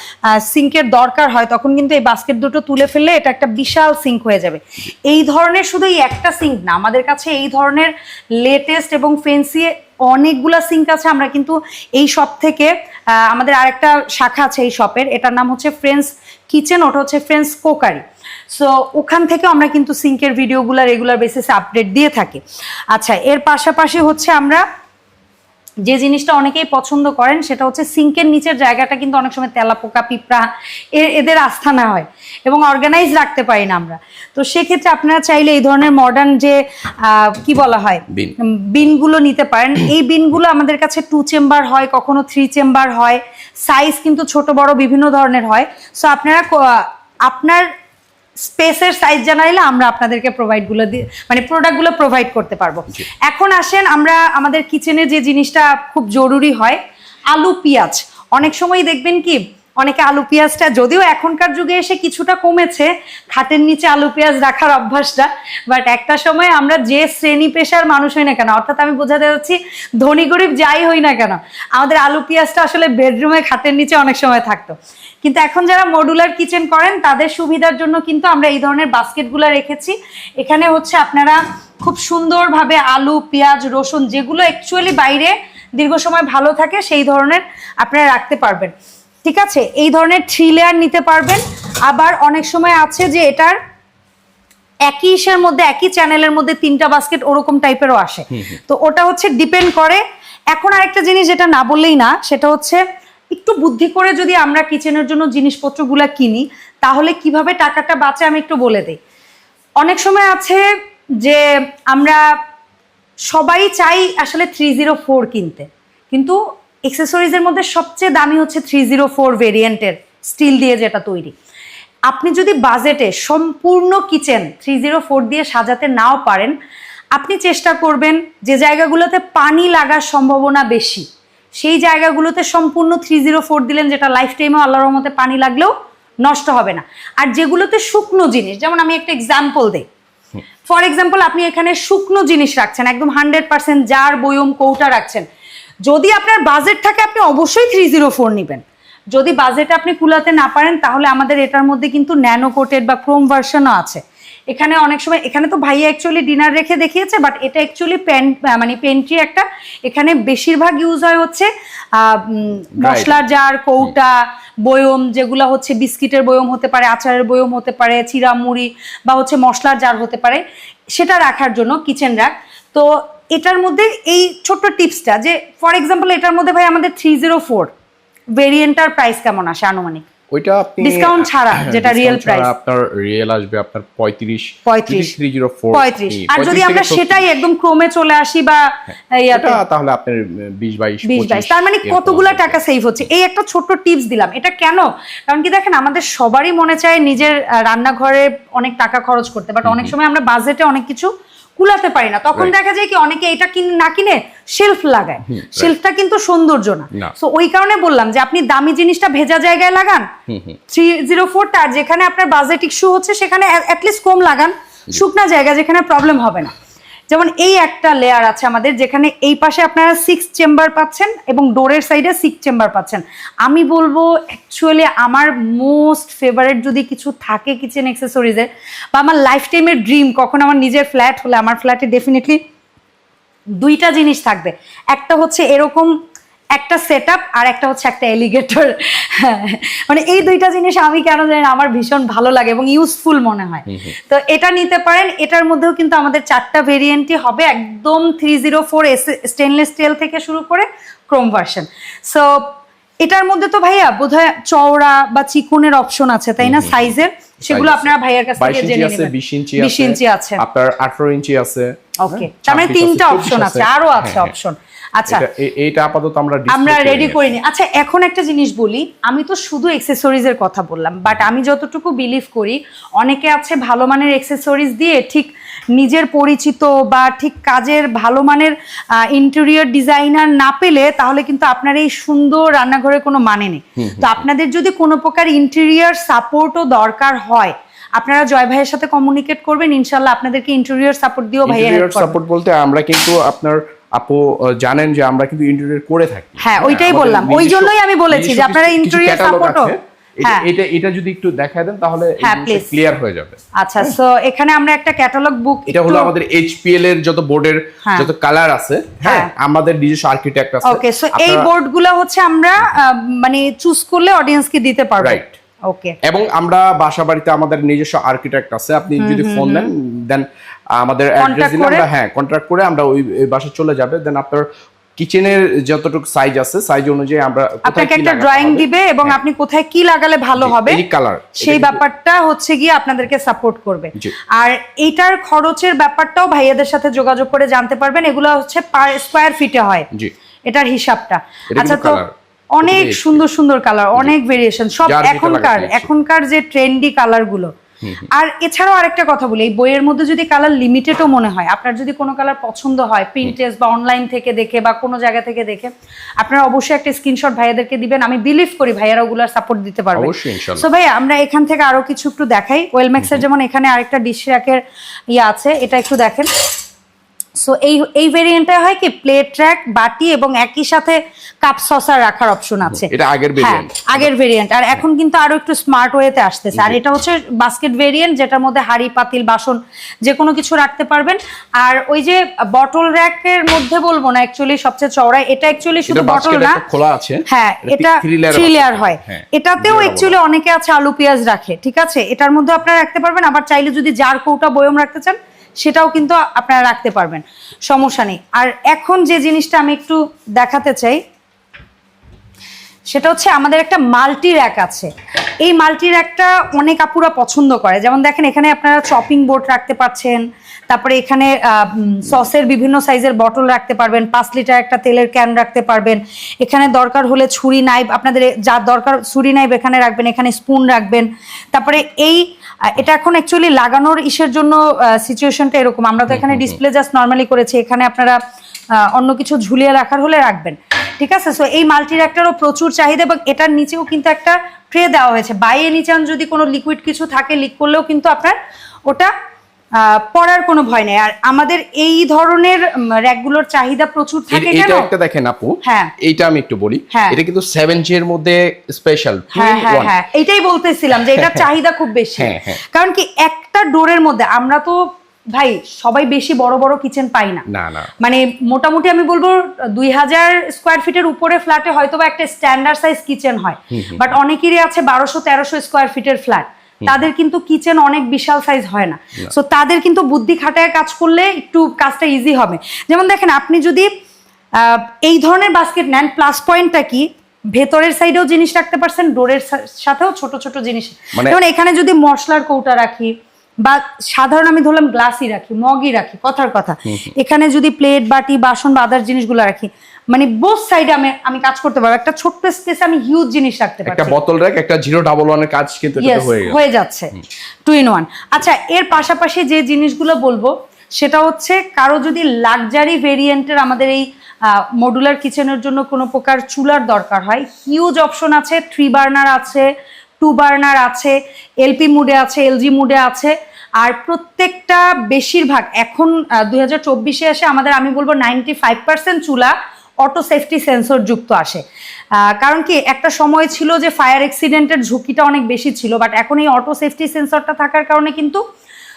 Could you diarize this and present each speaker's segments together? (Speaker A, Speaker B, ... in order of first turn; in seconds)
Speaker A: 0.3-24.6, 25.8-47.6, 48.4-88.7, 89.2-93.6, 94.9-100.0, 100.5-102.8, 103.3-109.0, 109.8-110.7, 111.2-112.2, 113.3-121.3, 122.1-126.5, 127.1-131.1, 131.6-135.7, 136.2-139.8, 140.7-145.2, 145.8-148.6, 149.1-170.4, 170.9-177.7, 178.3-180.0, 180.8-182.5, 184.7-185.1, 185.7-189.6, 191.0-210.1, 210.7-216.5, 217.1-232.4, 233.6-235.9, 236.5-260.4, 262.0-265.2, 266.5-292.1, 296.4-300.5, 302.2-302.7, 303.6-306.1, 309.0-309.3, 310.6-315.9, 319.0-319.7, 321.2-321.9, 327.6-330.8, 331.4-339.9, 340.5-342.0, 342.5-347.5, 348.1-364.6, 365.1-366.3, 367.4-386.6, 387.3-401.0, 402.9-404.9, 405.4-428.2, 428.7-439.1, 439.8-444.9, 445.6-445.9, 446.9-447.2, 449.3-454.8, 455.3-457.4, 458.0-473.9, 474.6-494.1, 496.0-497.1, 497.6-509.6, 510.2-521.6, 522.2-528.4
Speaker B: 162.8-163.2, 180.3-187.3, 189.3-192.6, 199.6-199.9, 205.2-205.7, 210.3-210.6, 243.7-243.9, 256.4-256.9, 257.5-264.3, 265.1-267.4, 283.8-284.2, 291.4-303.9, 305.7-311.5, 315.0-315.4, 316.0-329.2, 330.4-331.8, 341.5-343.2, 344.8-345.9, 347.8-348.1, 359.9-360.6, 372.7-374.1, 376.5-376.8, 385.9-390.2, 426.2-426.6, 444.3-449.9, 451.1-451.4, 452.2-452.6, 457.5-457.9, 463.7-464.1, 486.9-487.1, 493.9-496.6